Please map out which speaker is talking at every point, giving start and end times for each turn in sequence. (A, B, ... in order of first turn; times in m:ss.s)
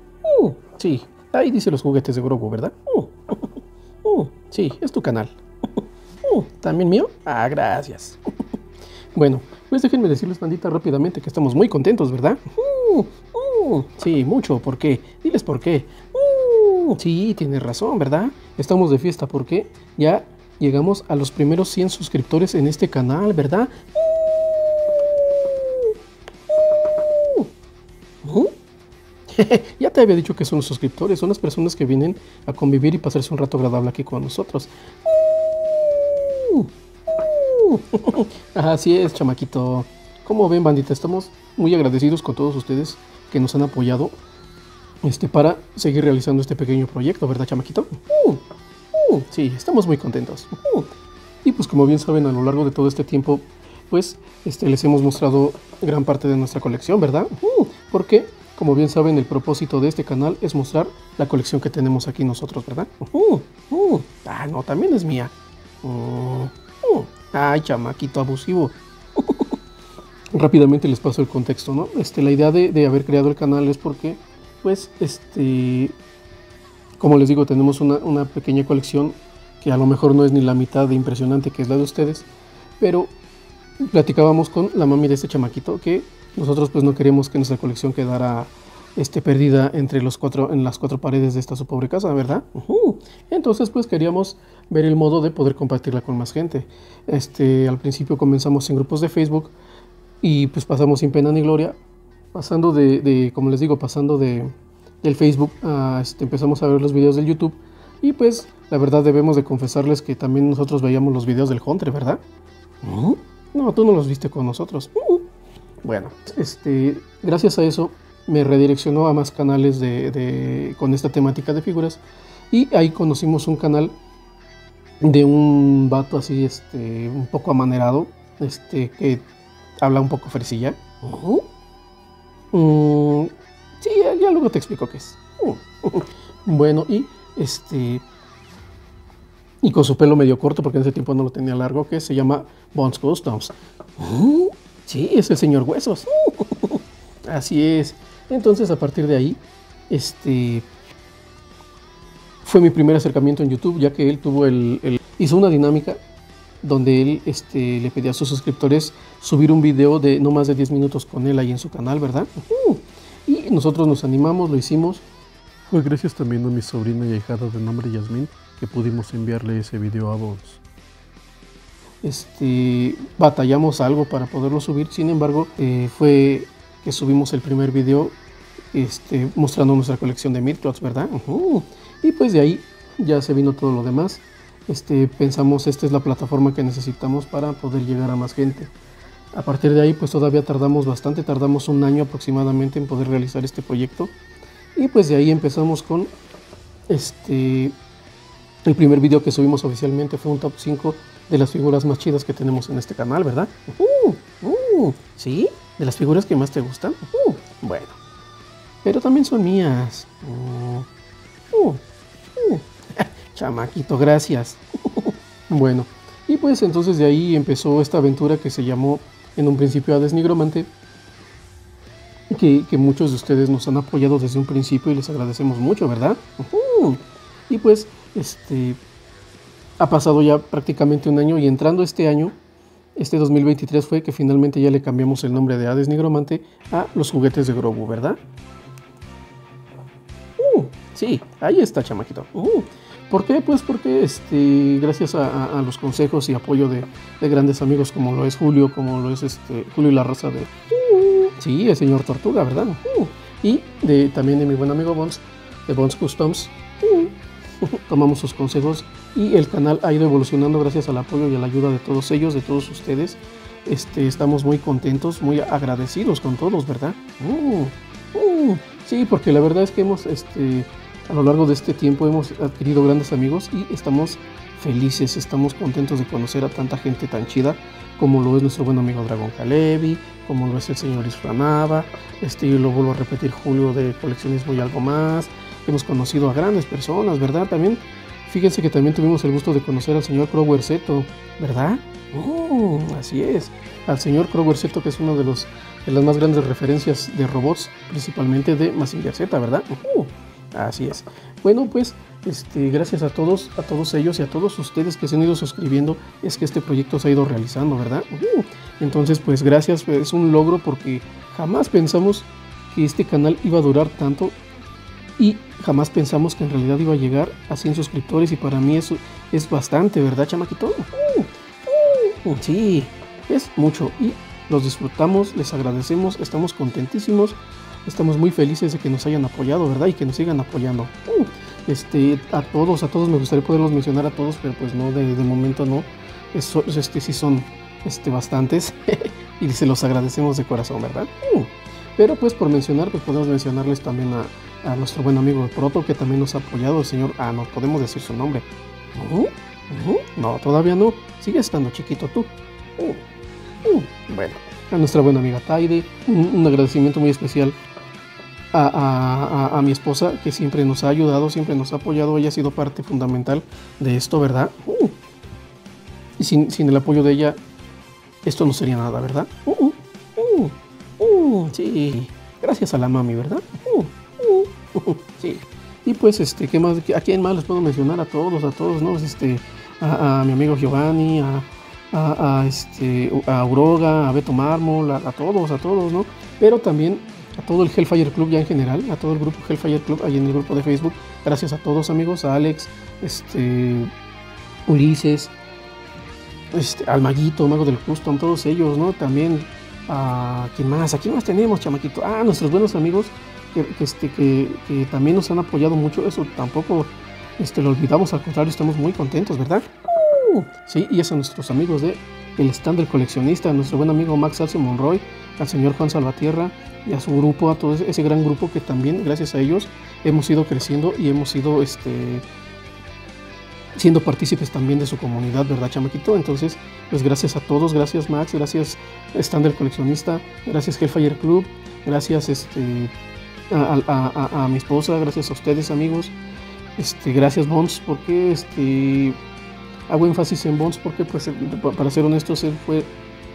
0:00.2-0:03.5 A
0:04.0-0:05.4 A
0:06.2-0:08.2 A
0:09.1-0:24.2 A
0:25.6-0:25.9 A
0:27.1-0:27.5 A
0:28.2-0:28.5 A
0:29.3-0:44.2 A
0:45.0-0:48.4 A
0:48.9-0:50.9 A
0:51.4-1:09.6 A
1:10.3-1:16.0 A
1:17.0-1:22.3 A
1:22.8-1:23.1 A
1:23.8-1:39.5 A
1:40.2-1:41.8 A
1:42.3-1:52.2 A
1:52.8-1:55.2 A
1:55.8-2:03.9 A
2:05.0-2:09.3 A
2:09.8-2:11.4 A
2:12.5-2:18.0 A
2:19.6-2:30.7 A
2:32.4-2:36.0 A
2:36.6-2:45.0 A
2:45.7-2:50.6 A
2:52.0-2:58.2 A
2:58.7-3:08.7 A
3:09.3-3:14.1 A
3:14.8-3:16.1 A
3:16.9-3:17.8 A
3:18.6-3:28.0 A
3:28.8-3:30.8 A
3:31.5-3:31.8 A
3:32.4-3:40.7 A
3:42.3-3:48.8 A
3:49.8-3:52.4 A
3:53.0-3:58.2 A
4:00.4-4:17.1 A
4:17.6-5:14.4 A
5:15.2-5:53.0 A
5:53.6-5:57.6 A
5:58.5-6:04.9 A
6:06.2-6:07.4 A
6:08.2-6:33.9 A
6:34.7-6:35.3 A
6:36.5-7:02.2 A
7:03.8-7:12.9 A
7:13.5-7:16.1 A
7:16.8-7:19.2 A
7:19.9-7:22.9 A